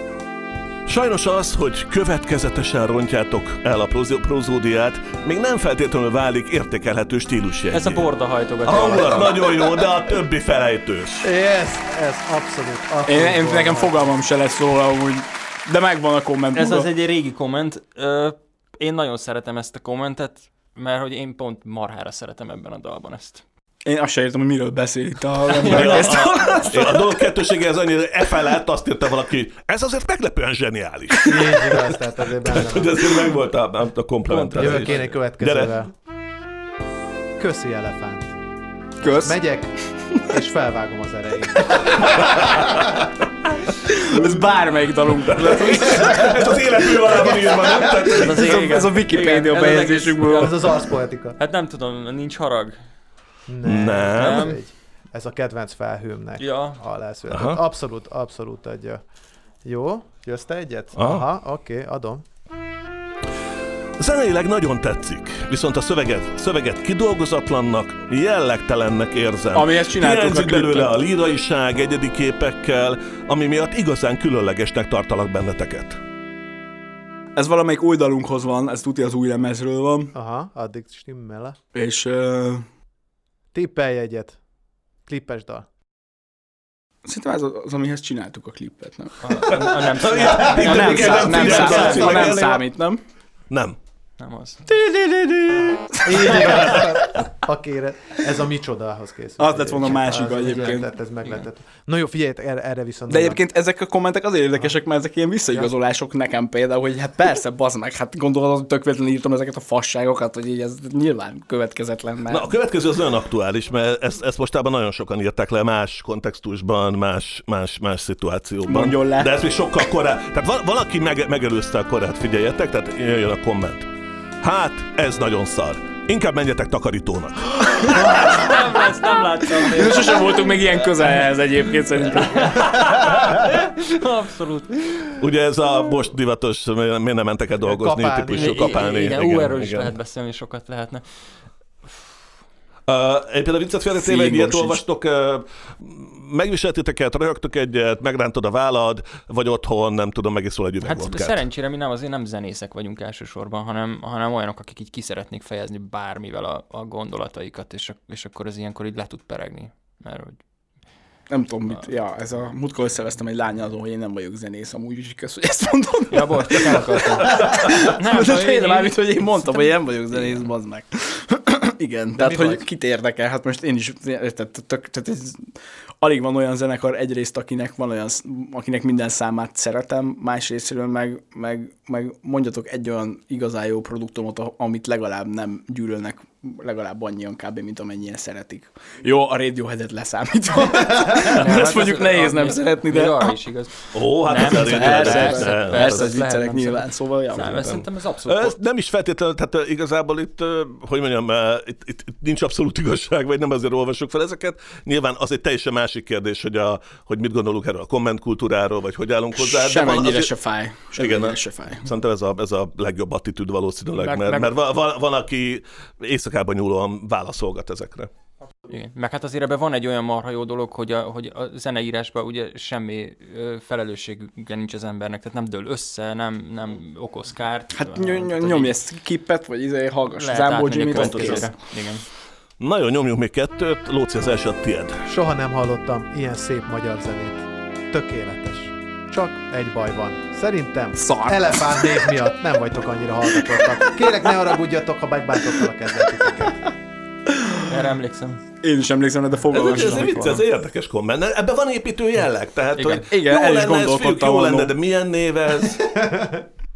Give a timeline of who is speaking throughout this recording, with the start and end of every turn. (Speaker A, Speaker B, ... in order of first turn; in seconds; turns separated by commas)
Speaker A: 0.8-8.1, Speaker B: 7.7-9.6, Speaker A: 8.6-11.3, Speaker C: 11.2-14.2, Speaker D: 13.1-16.9, Speaker B: 16.5-23.4, Speaker D: 23.9-27.2, Speaker B: 25.5-26.6, Speaker A: 25.7-35.7, Speaker C: 31.2-33.1, Speaker B: 34.3-35.1, Speaker C: 34.5-35.9, Speaker C: 37.4-38.3, Speaker D: 39.0-39.4, Speaker C: 39.2-39.7, Speaker C: 40.2-43.1, Speaker D: 43.9-46.5, Speaker A: 44.1-44.4, Speaker A: 45.1-48.8, Speaker C: 45.9-48.2, Speaker B: 48.1-50.8, Speaker D: 48.3-50.6, Speaker C: 50.2-51.4, Speaker B: 51.4-52.8, Speaker C: 53.5-59.0, Speaker A: 53.6-54.5, Speaker B: 54.1-54.6, Speaker B: 56.4-56.8, Speaker A: 57.3-57.6, Speaker C: 59.6-62.2, Speaker A: 61.0-61.2, Speaker A: 64.0-76.0, Speaker D: 69.5-71.0, Speaker D: 77.3-80.1, Speaker C: 80.1-81.6, Speaker D: 81.7-82.7, Speaker C: 83.5-84.4, Speaker C: 85.0-85.7, Speaker D: 87.0-89.4, Speaker B: 89.2-92.2, Speaker A: 89.4-92.6, Speaker C: 90.2-92.3, Speaker D: 90.5-93.0, Speaker A: 93.5-93.8, Speaker B: 94.2-94.7, Speaker D: 94.7-97.0, Speaker C: 96.0-103.4, Speaker D: 99.4-100.9, Speaker D: 103.1-112.5, Speaker A: 112.3-123.9, Speaker D: 118.7-119.4, Speaker A: 124.4-128.6, Speaker B: 127.7-130.7, Speaker D: 129.6-132.8, Speaker B: 132.1-135.1, Speaker A: 135.2-139.9, Speaker C: 137.6-138.9, Speaker B: 138.3-141.0, Speaker A: 142.9-151.4, Speaker D: 143.9-144.8, Speaker B: 150.8-160.4, Speaker D: 161.3-193.3, Speaker B: 166.1-169.6, Speaker C: 172.2-172.6, Speaker B: 191.2-198.6, Speaker A: 193.9-196.1, Speaker D: 194.3-197.8, Speaker A: 197.4-210.3, Speaker D: 209.3-211.9, Speaker A: 210.9-218.1, Speaker B: 214.1-214.5, Speaker B: 218.7-228.8, Speaker D: 227.7-231.5, Speaker B: 230.2-232.1, Speaker A: 230.9-231.5, Speaker A: 232.6-235.0, Speaker C: 235.1-246.7, Speaker D: 241.0-242.1, Speaker D: 247.3-247.7, Speaker B: 247.7-248.4, Speaker D: 248.6-250.4, Speaker A: 249.5-256.0, Speaker B: 249.6-250.4, Speaker B: 252.8-253.1, Speaker D: 253.1-254.7, Speaker C: 255.9-256.4